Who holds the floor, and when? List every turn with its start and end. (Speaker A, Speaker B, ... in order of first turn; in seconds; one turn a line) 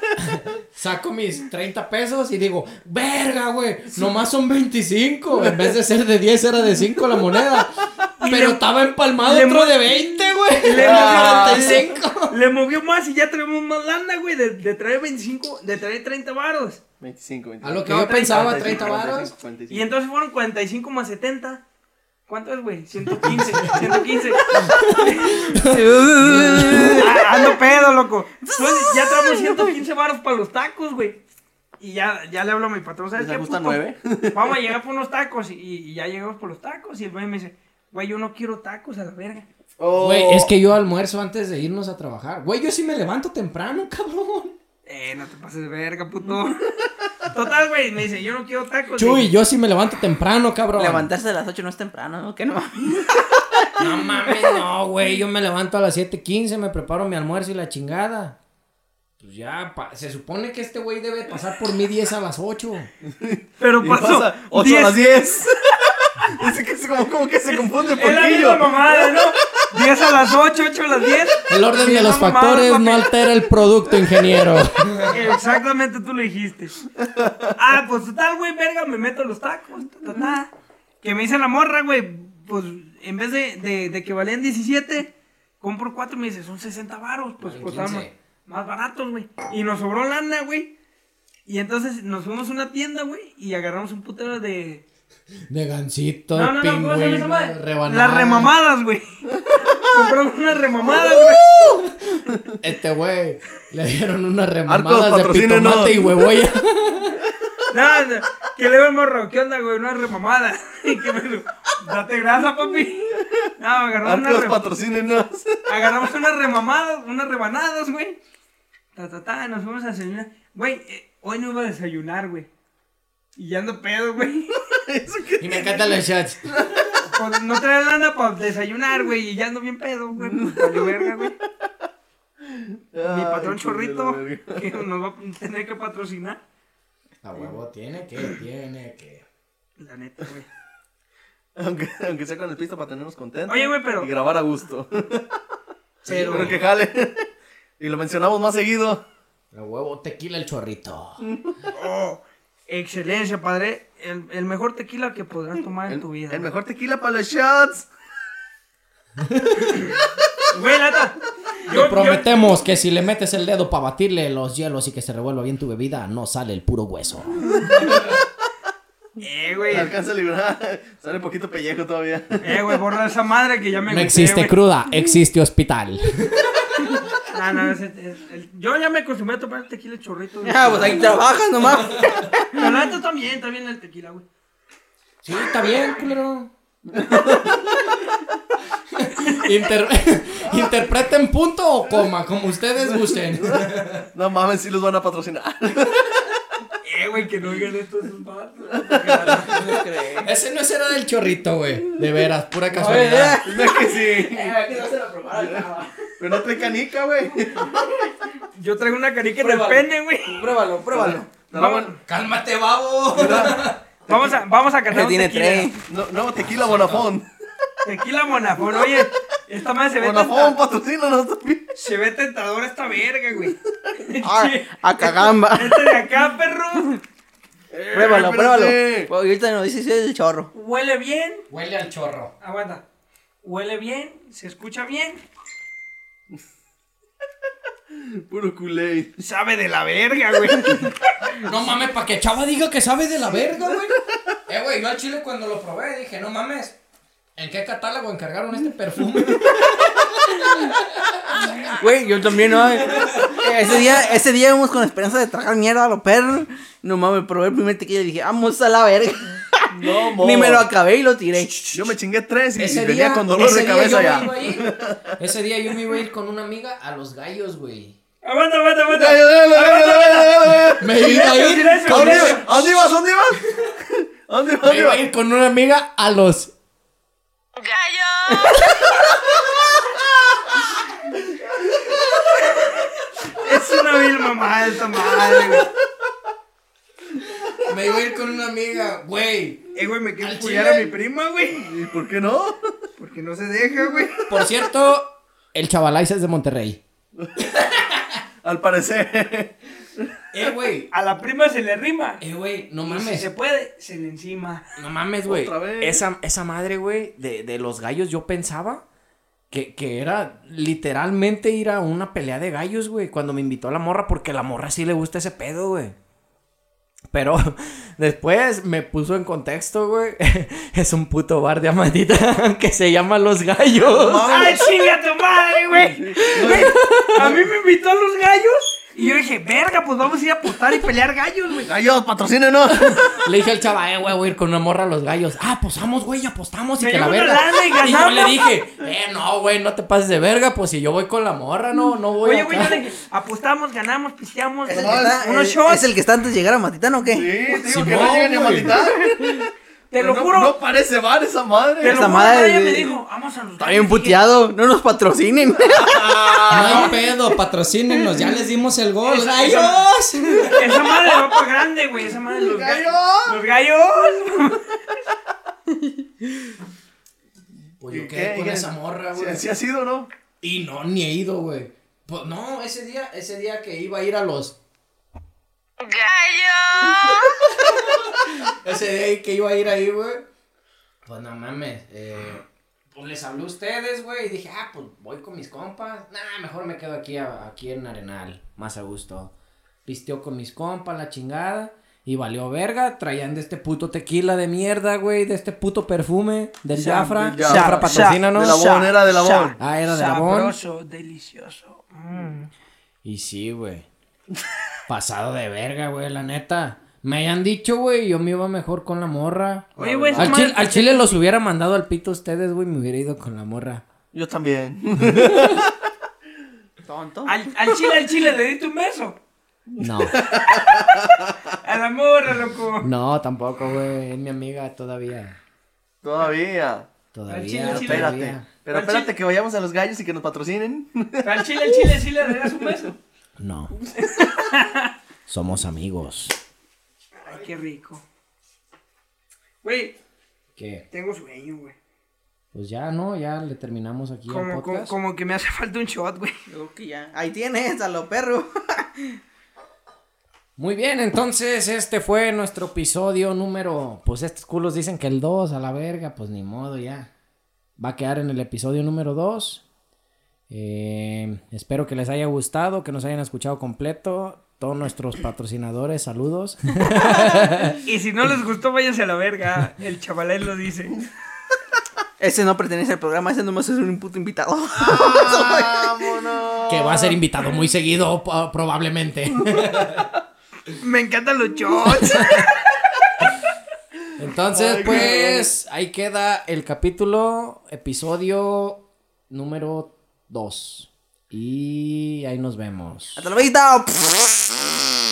Speaker A: 0.2-12.4
Speaker B: 5.3-5.8
Speaker B: 7.0-7.4
Speaker C: 8.2-8.6
Speaker C: 9.2-10.0
Speaker C: 10.6-16.8
Speaker B: 10.7-11.9
Speaker B: 17.0-19.9
Speaker A: 17.6-19.3
Speaker C: 17.9-18.6
Speaker C: 19.7-21.6
Speaker C: 22.3-25.4
Speaker A: 23.2-24.0
Speaker A: 24.5-27.0
Speaker D: 25.6-27.2
Speaker C: 27.0-31.2
Speaker C: 31.8-39.5
Speaker B: 33.2-34.8
Speaker B: 39.8-40.5
Speaker A: 40.0-44.6
Speaker C: 44.9-46.6
Speaker C: 47.2-49.3
Speaker A: 49.0-51.1
Speaker D: 50.8-53.6
Speaker A: 53.8-58.4
Speaker A: 59.2-62.9
Speaker B: 63.0-65.6
Speaker C: 63.6-65.8
Speaker B: 66.3-69.3
Speaker C: 67.5-73.1
Speaker A: 71.5-75.2
Speaker C: 75.1-76.8
Speaker B: 77.0-77.5
Speaker C: 77.5-80.5
Speaker C: 81.0-90.7
Speaker A: 87.4-88.2
Speaker C: 91.5-94.8
Speaker A: 95.5-98.5
Speaker C: 96.3-99.0
Speaker C: 99.6-101.6
Speaker A: 101.5-107.2
Speaker B: 104.7-106.1
Speaker C: 107.7-114.6
Speaker B: 114.0-115.6
Speaker C: 115.7-118.2
Speaker C: 119.0-122.5
Speaker C: 123.4-124.6
Speaker B: 124.9-127.1
Speaker A: 125.4-126.5
Speaker C: 127.1-131.3
Speaker B: 130.2-131.7
Speaker B: 132.4-134.8
Speaker C: 133.0-136.4
Speaker A: 137.2-139.2
Speaker C: 139.8-140.5
Speaker B: 141.6-145.4
Speaker C: 143.5-144.1
Speaker A: 146.1-146.6
Speaker C: 146.1-146.5
Speaker B: 146.1-147.3
Speaker B: 147.8-149.0
Speaker A: 149.5-151.2
Speaker B: 151.2-151.6
Speaker C: 151.7-156.5
Speaker B: 155.9-157.9
Speaker A: 159.2-159.8
Speaker C: 160.5-162.3
Speaker A: 161.7-167.7
Speaker C: 169.2-169.9
Speaker B: 169.7-172.6
Speaker C: 172.4-174.5
Speaker A: 173.9-176.9
Speaker C: 177.3-181.2
Speaker D: 180.4-182.6
Speaker C: 182.5-184.2
Speaker A: 185.2-186.5
Speaker B: 186.9-187.9
Speaker A: 189.0-194.1
Speaker B: 192.8-196.4
Speaker C: 196.8-199.6
Speaker B: 198.8-199.4
Speaker D: 199.5-200.3
Speaker A: 199.6-203.4
Speaker D: 202.7-206.1
Speaker B: 203.4-204.6
Speaker B: 205.3-207.8
Speaker C: 208.6-210.4
Speaker D: 209.4-211.3
Speaker B: 210.9-212.0
Speaker C: 211.5-212.0
Speaker A: 212.1-213.8
Speaker B: 213.1-214.4
Speaker C: 214.1-215.7
Speaker D: 214.9-215.8
Speaker B: 215.9-217.3
Speaker A: 216.4-217.1
Speaker C: 217.8-220.6
Speaker B: 218.7-219.0
Speaker B: 220.0-221.7
Speaker C: 221.8-227.0
Speaker D: 224.2-226.0
Speaker B: 227.7-229.1
Speaker D: 227.9-230.5
Speaker C: 230.5-231.5
Speaker A: 231.5-232.3
Speaker C: 232.4-232.8
Speaker C: 233.4-235.2
Speaker B: 237.9-239.1
Speaker C: 239.2-241.4
Speaker A: 241.4-246.8
Speaker A: 247.4-251.8
Speaker D: 251.8-259.4
Speaker A: 253.0-253.4
Speaker B: 259.7-260.7
Speaker D: 260.1-261.9
Speaker B: 261.7-265.0
Speaker A: 262.6-268.0
Speaker C: 268.2-272.4
Speaker B: 268.9-271.2
Speaker A: 270.8-272.5
Speaker B: 271.8-273.4
Speaker B: 274.3-275.0
Speaker A: 274.6-276.5
Speaker E: 277.6-278.8
Speaker C: 283.3-285.7
Speaker A: 287.7-289.6
Speaker C: 289.8-291.7
Speaker A: 290.2-290.8
Speaker B: 291.6-292.6
Speaker C: 293.0-294.2
Speaker A: 294.3-296.8
Speaker A: 297.5-298.1
Speaker B: 298.4-300.5
Speaker A: 300.3-300.9
Speaker C: 300.9-302.2
Speaker A: 302.2-303.3
Speaker C: 302.9-304.6
Speaker A: 304.8-308.8
Speaker B: 305.2-306.0
Speaker A: 309.5-315.9
Speaker A: 317.1-324.2
Speaker B: 323.8-324.6
Speaker C: 324.2-331.7
Speaker B: 325.9-327.5
Speaker B: 331.6-333.0
Speaker A: 332.9-342.8
Speaker C: 336.8-338.4
Speaker C: 342.2-345.9
Speaker D: 344.7-347.3
Speaker B: 344.7-345.2
Speaker B: 347.1-352.1
Speaker A: 347.6-348.8
Speaker C: 349.9-350.6
Speaker C: 351.8-354.2
Speaker D: 351.8-353.0
Speaker D: 353.6-356.9
Speaker B: 355.8-356.9
Speaker A: 356.5-360.7
Speaker C: 359.0-359.9
Speaker C: 360.4-364.8
Speaker B: 362.4-363.4
Speaker A: 367.8-369.4
Speaker B: 367.9-370.1
Speaker A: 370.4-374.6
Speaker E: 375.8-377.5
Speaker A: 377.6-377.8
Speaker A: 378.6-380.2
Speaker A: 381.1-389.3
Speaker A: 389.9-398.6
Speaker C: 396.8-402.5
Speaker B: 397.3-399.6
Speaker A: 399.6-400.6
Speaker A: 403.1-403.9
Speaker A: 404.9-413.8
Speaker B: 409.8-410.5
Speaker C: 409.8-411.1
Speaker B: 414.1-415.9
Speaker D: 416.9-417.4
Speaker C: 417.3-419.2
Speaker B: 419.7-421.5
Speaker A: 419.8-420.2
Speaker C: 421.6-422.9
Speaker A: 422.8-425.4
Speaker B: 426.0-426.9
Speaker A: 427.1-428.5
Speaker C: 427.3-428.1
Speaker B: 427.7-432.9
Speaker C: 428.7-429.1
Speaker C: 431.2-433.0
Speaker A: 433.4-433.7
Speaker B: 433.8-434.1
Speaker C: 434.0-434.9
Speaker A: 435.3-436.4
Speaker C: 437.2-438.0
Speaker C: 439.6-440.0
Speaker A: 440.6-440.9
Speaker C: 440.9-441.8
Speaker A: 442.5-445.0
Speaker C: 444.3-446.4
Speaker D: 446.5-449.1
Speaker A: 450.6-457.1
Speaker A: 457.8-459.6
Speaker A: 460.5-467.8
Speaker C: 467.8-471.0
Speaker D: 472.2-476.0
Speaker B: 474.8-477.2
Speaker A: 476.7-480.1
Speaker C: 480.8-482.7
Speaker A: 484.2-493.2
Speaker B: 484.5-485.5
Speaker D: 493.2-494.6